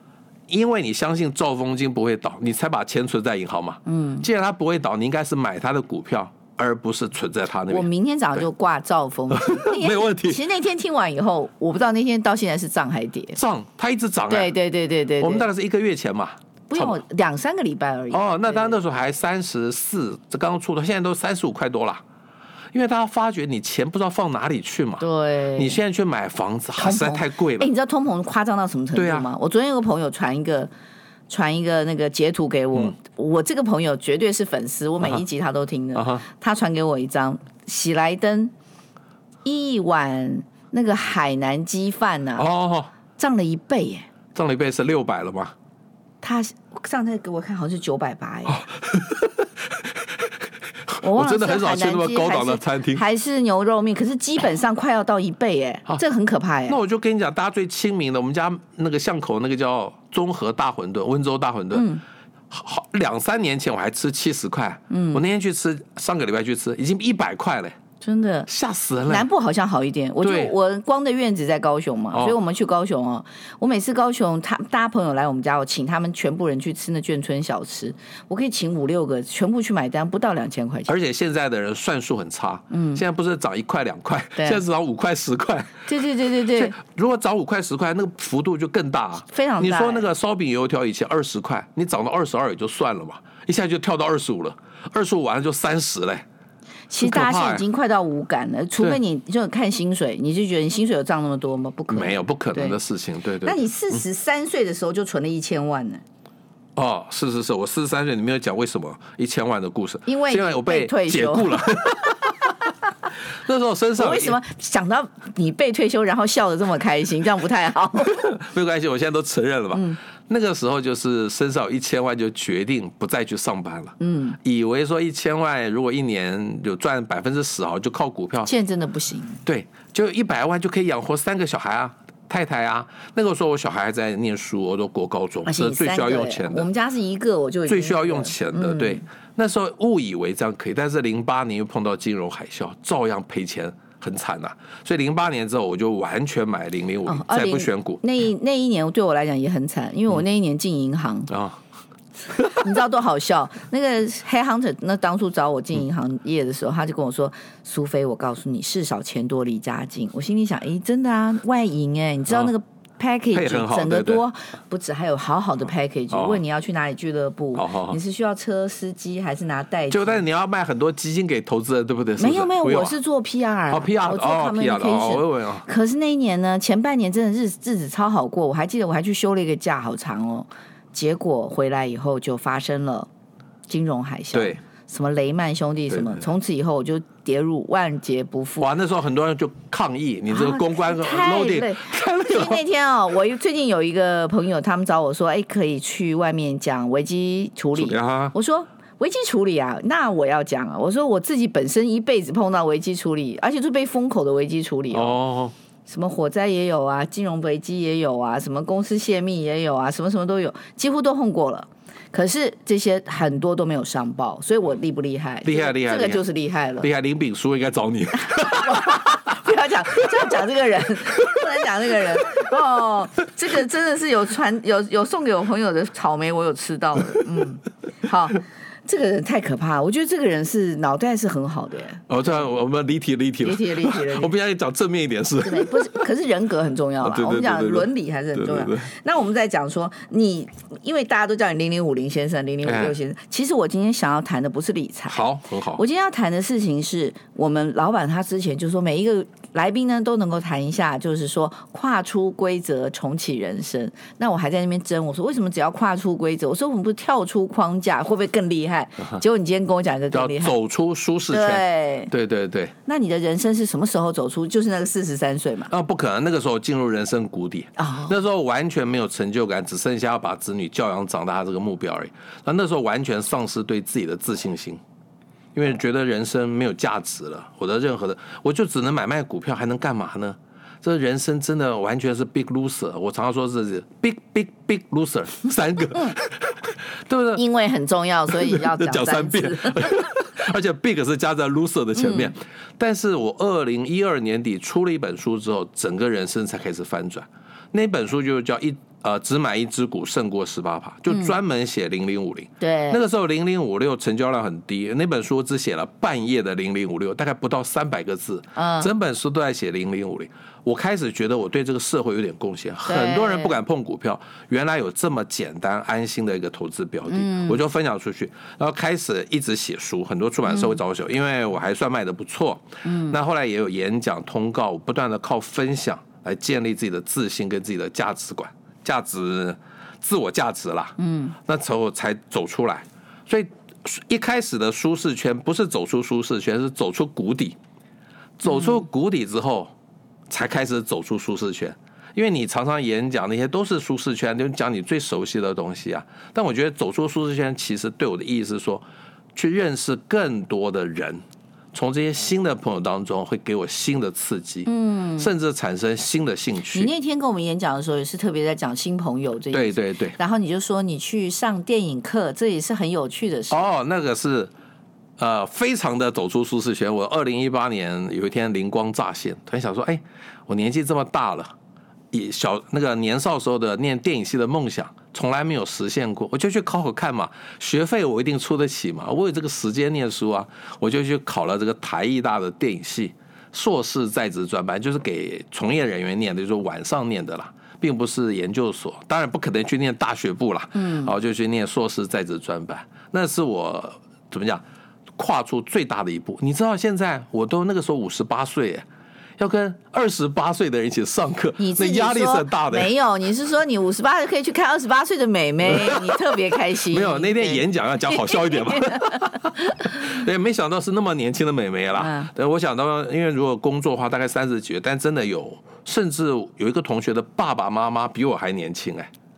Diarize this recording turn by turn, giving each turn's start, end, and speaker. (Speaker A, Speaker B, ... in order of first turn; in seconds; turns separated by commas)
Speaker A: 0.5-7.9, Speaker B: 3.9-4.3, Speaker B: 7.7-13.4, Speaker A: 9.3-10.4, Speaker A: 13.4-14.5, Speaker B: 14.3-15.5, Speaker A: 15.2-17.0, Speaker B: 16.7-18.8, Speaker A: 18.1-22.0, Speaker A: 22.7-27.7, Speaker B: 25.0-25.8, Speaker B: 26.8-30.7, Speaker A: 28.9-29.3, Speaker B: 31.3-38.5, Speaker A: 36.0-36.2, Speaker B: 39.5-42.5, Speaker A: 42.4-42.9, Speaker B: 43.2-44.1, Speaker A: 44.4-45.5, Speaker B: 46.2-48.6, Speaker A: 48.5-50.3, Speaker A: 50.9-53.0, Speaker B: 51.0-56.8, Speaker A: 56.7-61.9, Speaker B: 61.7-62.0, Speaker A: 62.5-67.8, Speaker B: 64.9-65.2, Speaker B: 68.0-68.5, Speaker A: 68.5-69.3, Speaker B: 69.1-80.9, Speaker A: 70.2-70.5, Speaker A: 80.9-96.2, Speaker B: 82.7-83.0, Speaker B: 84.4-84.6, Speaker B: 85.9-86.8, Speaker B: 89.3-90.1, Speaker B: 96.9-102.8, Speaker A: 97.0-97.6, Speaker A: 101.9-104.0, Speaker B: 103.4-106.0, Speaker A: 106.8-112.5, Speaker B: 110.1-111.8, Speaker A: 113.5-114.4, Speaker B: 114.0-118.2, Speaker A: 118.1-128.5, Speaker B: 119.7-120.0, Speaker B: 124.0-124.4, Speaker B: 128.5-129.4, Speaker A: 129.5-136.7, Speaker B: 135.5-139.0, Speaker A: 137.7-148.0, Speaker B: 147.1-151.3, Speaker A: 151.3-151.6, Speaker A: 152.3-152.6, Speaker B: 152.5-170.2, Speaker A: 163.3-164.2, Speaker A: 166.1-166.4, Speaker A: 167.6-168.0, Speaker A: 169.9-173.0, Speaker B: 172.2-183.1, Speaker A: 173.7-175.7, Speaker B: 183.7-188.7, Speaker A: 184.3-184.6, Speaker A: 185.9-186.3, Speaker A: 188.6-192.6, Speaker B: 190.3-205.2, Speaker A: 197.8-198.3, Speaker A: 204.9-205.5, Speaker B: 205.9-216.9, Speaker A: 215.4-216.2, Speaker A: 216.8-219.1, Speaker B: 218.3-232.4, Speaker A: 232.1-236.0, Speaker B: 233.4-234.3, Speaker B: 235.4-260.6, Speaker A: 237.0-238.9, Speaker A: 242.7-242.9, Speaker A: 245.1-245.8, Speaker A: 260.1-262.7, Speaker B: 261.3-262.1, Speaker B: 262.9-265.7, Speaker A: 265.7-274.8, Speaker B: 267.8-268.1, Speaker A: 275.6-287.4, Speaker B: 287.4-290.0, Speaker A: 288.3-337.6, Speaker B: 292.0-292.3, Speaker B: 302.6-303.0, Speaker B: 308.6-308.9, Speaker B: 312.9-313.6, Speaker B: 317.1-317.6, Speaker B: 320.5-320.8, Speaker B: 322.8-323.2, Speaker B: 331.0-331.4, Speaker A: 338.4-339.7, Speaker B: 338.5-338.8, Speaker A: 340.3-356.9, Speaker B: 354.7-355.3, Speaker B: 356.7-363.7, Speaker A: 359.5-360.2, Speaker A: 363.5-364.5, Speaker A: 365.2-371.5, Speaker A: 372.1-394.6, Speaker B: 390.8-391.1, Speaker A: 395.2-398.9, Speaker A: 399.4-402.9, Speaker B: 401.6-410.1, Speaker A: 405.6-419.1, Speaker B: 412.0-412.3